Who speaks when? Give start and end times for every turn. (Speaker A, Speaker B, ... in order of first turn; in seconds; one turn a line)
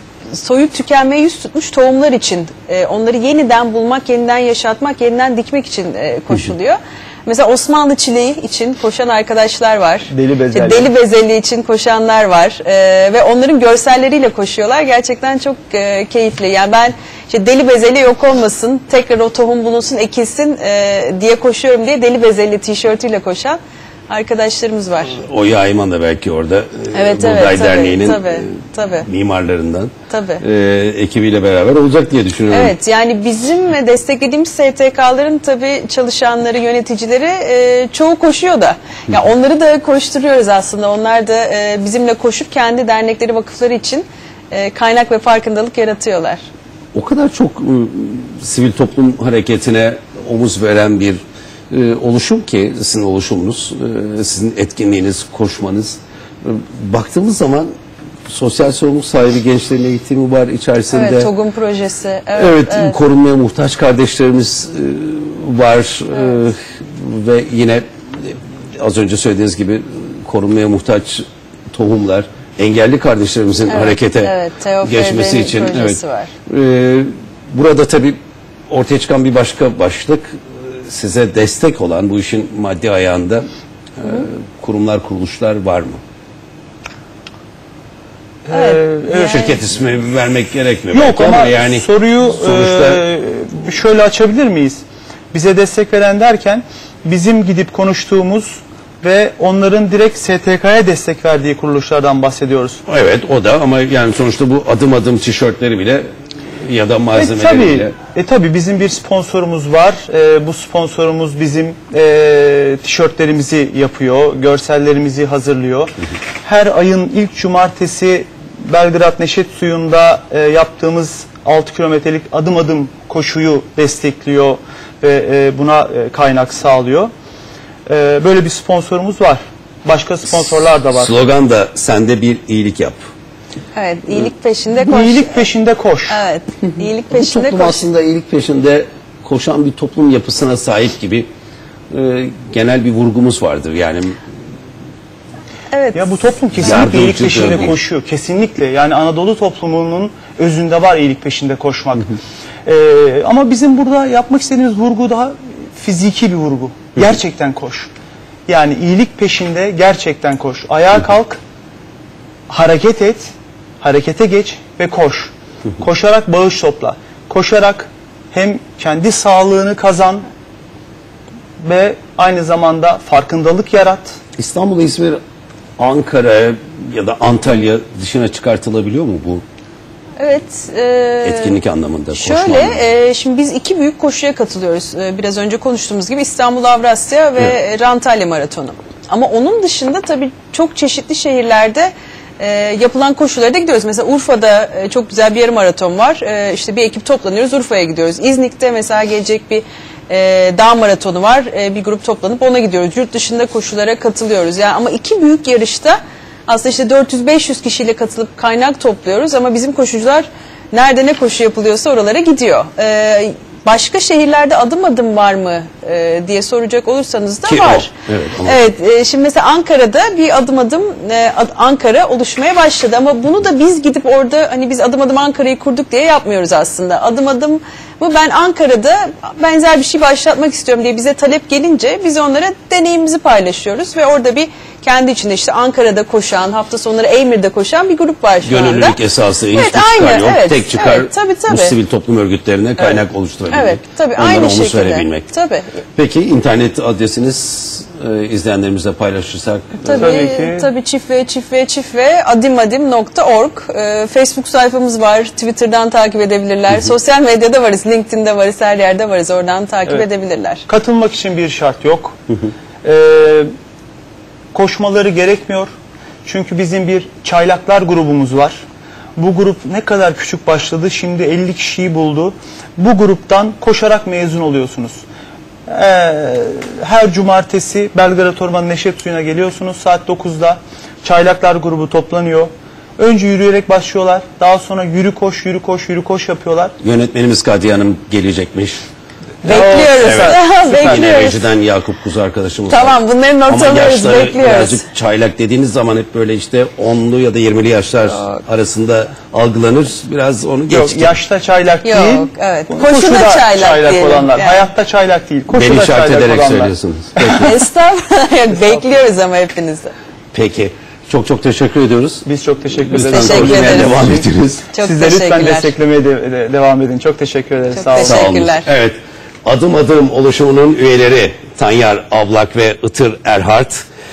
Speaker A: 0.3-23.6
Speaker B: 10.1-10.9
Speaker A: 24.1-25.2
Speaker C: 25.1-32.7
Speaker A: 26.9-29.1
Speaker A: 30.1-30.4
Speaker A: 32.5-46.4
Speaker C: 46.9-57.7
Speaker C: 58.3-61.3
Speaker A: 60.9-63.0
Speaker C: 62.3-83.5
Speaker A: 73.7-76.3
Speaker C: 84.0-86.0
Speaker B: 88.5-89.5
Speaker A: 88.5-89.6
Speaker C: 89.3-93.0
Speaker B: 90.9-102.8
Speaker C: 102.8-107.9
Speaker B: 107.1-115.9
Speaker B: 116.4-127.1
Speaker B: 127.9-131.1
Speaker C: 130.9-133.0
Speaker A: 133.7-135.4
Speaker B: 134.8-136.2
Speaker A: 136.1-137.9
Speaker C: 137.1-141.3
Speaker C: 141.9-144.2
Speaker A: 145.7-146.8
Speaker B: 145.9-152.1
Speaker C: 146.6-147.7
Speaker B: 152.7-157.9
Speaker B: 158.5-161.4
Speaker B: 162.5-170.2
Speaker B: 171.6-174.2
Speaker C: 174.4-175.2
Speaker C: 175.8-179.4
Speaker A: 180.2-181.6
Speaker C: 181.2-182.8
Speaker A: 182.1-217.9
Speaker C: 217.4-218.7
Speaker A: 218.4-239.0
Speaker C: 238.4-245.3
Speaker A: 239.5-241.8
Speaker A: 242.8-245.7
Speaker C: 245.9-250.1
Speaker A: 249.8-260.6
Speaker B: 249.9-250.7
Speaker B: 260.7-262.2
Speaker B: 262.8-263.5
Speaker B: 264.5-265.7
Speaker B: 266.2-268.6
Speaker B: 269.2-275.0
Speaker B: 275.7-286.7
Speaker C: 286.8-288.8
Speaker B: 289.4-291.1
Speaker A: 289.4-291.5
Speaker C: 289.8-301.1
Speaker A: 292.7-294.8
Speaker B: 300.7-307.4
Speaker A: 301.8-304.7
Speaker C: 305.5-307.5
Speaker A: 307.4-309.9
Speaker C: 310.3-314.6
Speaker B: 312.2-314.2
Speaker A: 313.1-314.1
Speaker A: 314.7-315.7
Speaker B: 314.8-318.2
Speaker A: 317.7-318.7
Speaker C: 318.0-323.8